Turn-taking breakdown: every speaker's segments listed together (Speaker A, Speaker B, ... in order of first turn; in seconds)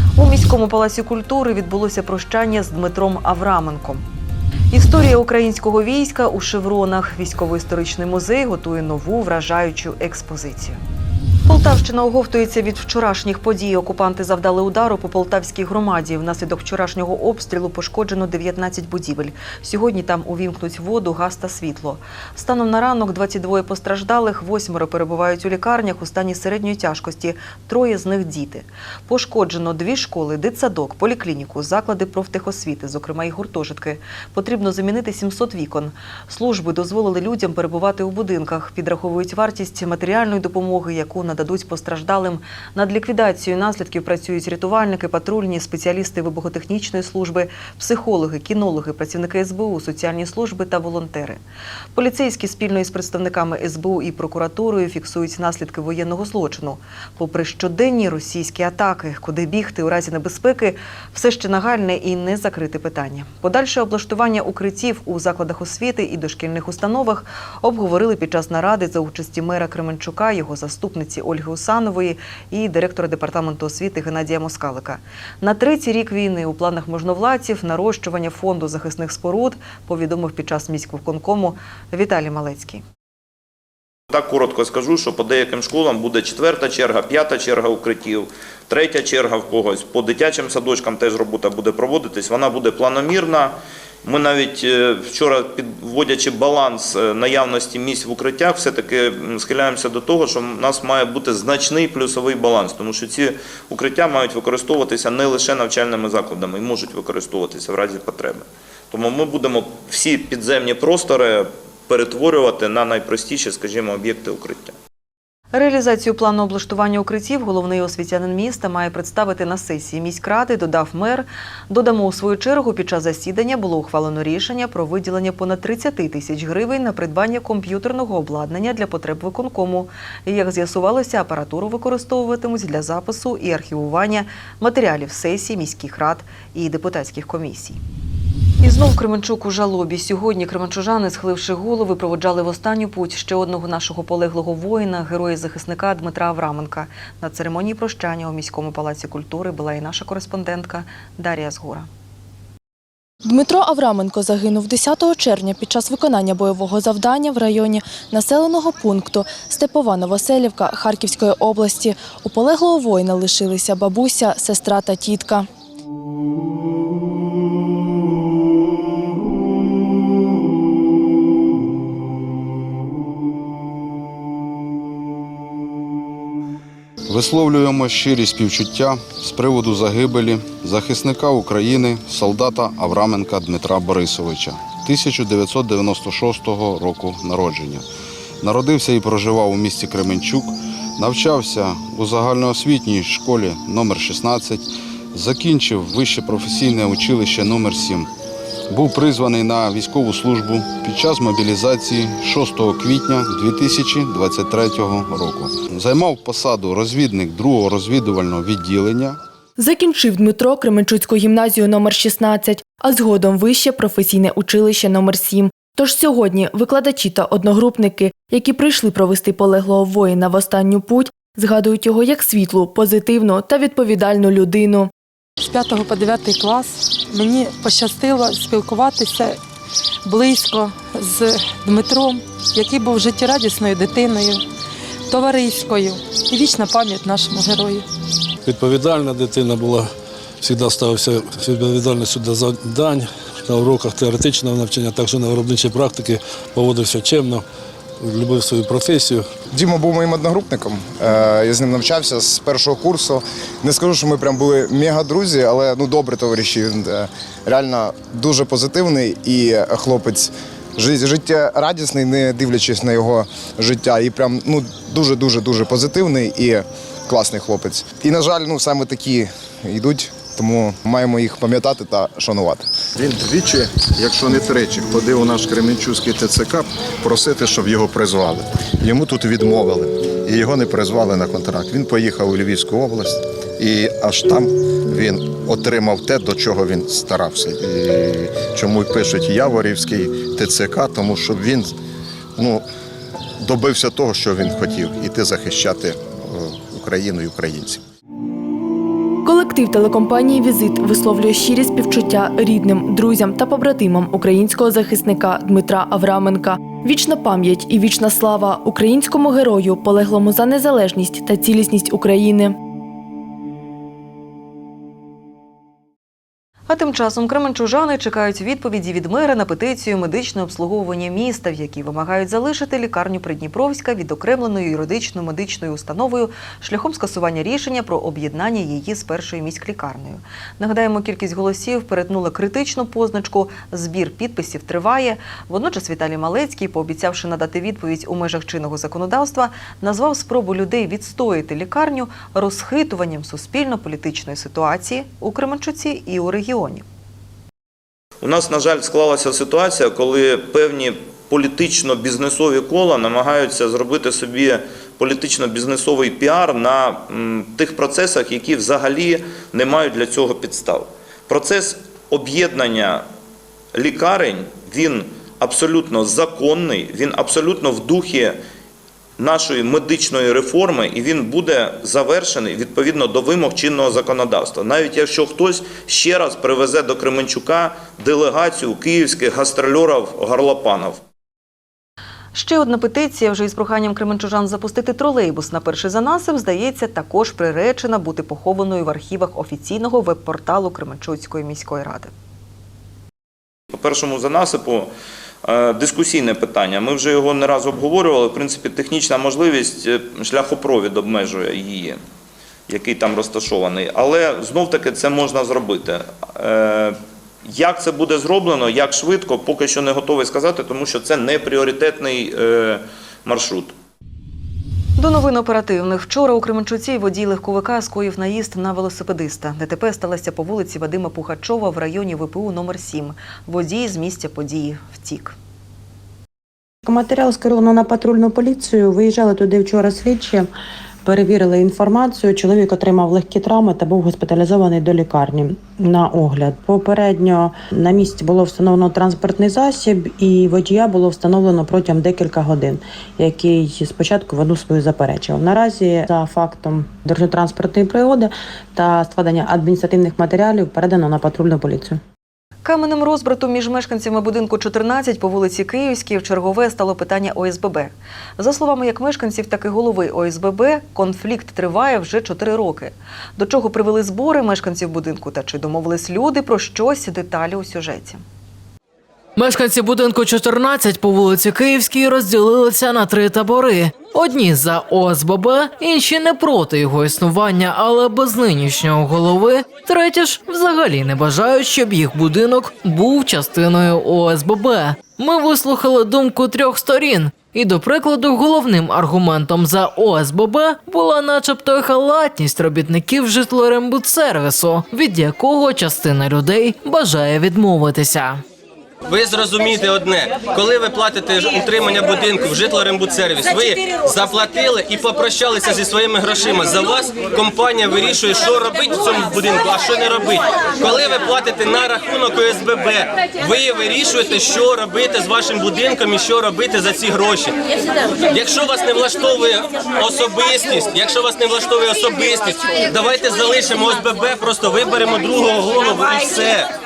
Speaker A: 0.2-4.0, 4.7-10.8, 11.5-51.4, 52.0-82.8, 115.5-137.8, 138.6-151.9, 316.7-346.8, 382.3-392.1, 415.0-425.4, 452.6-468.2
Speaker B: 84.1-114.8, 348.2-363.1, 363.7-368.4, 369.2-381.0, 393.7-394.9, 395.4-402.0, 402.7-413.7
Speaker C: 153.2-165.5, 209.6-224.9, 299.2-312.6
Speaker D: 177.1-187.9, 188.4-198.1, 198.7-209.2
Speaker E: 225.4-229.4, 230.1-234.4, 235.1-237.9
Speaker F: 238.5-239.9, 240.4-247.4, 248.0-249.4
Speaker G: 249.5-272.7
Speaker H: 273.0-291.7, 292.4-292.6, 293.4-297.8
Speaker I: 426.9-430.5, 431.1-452.0
Speaker J: 469.4-498.4
Speaker K: 499.1-517.6, 518.2-526.7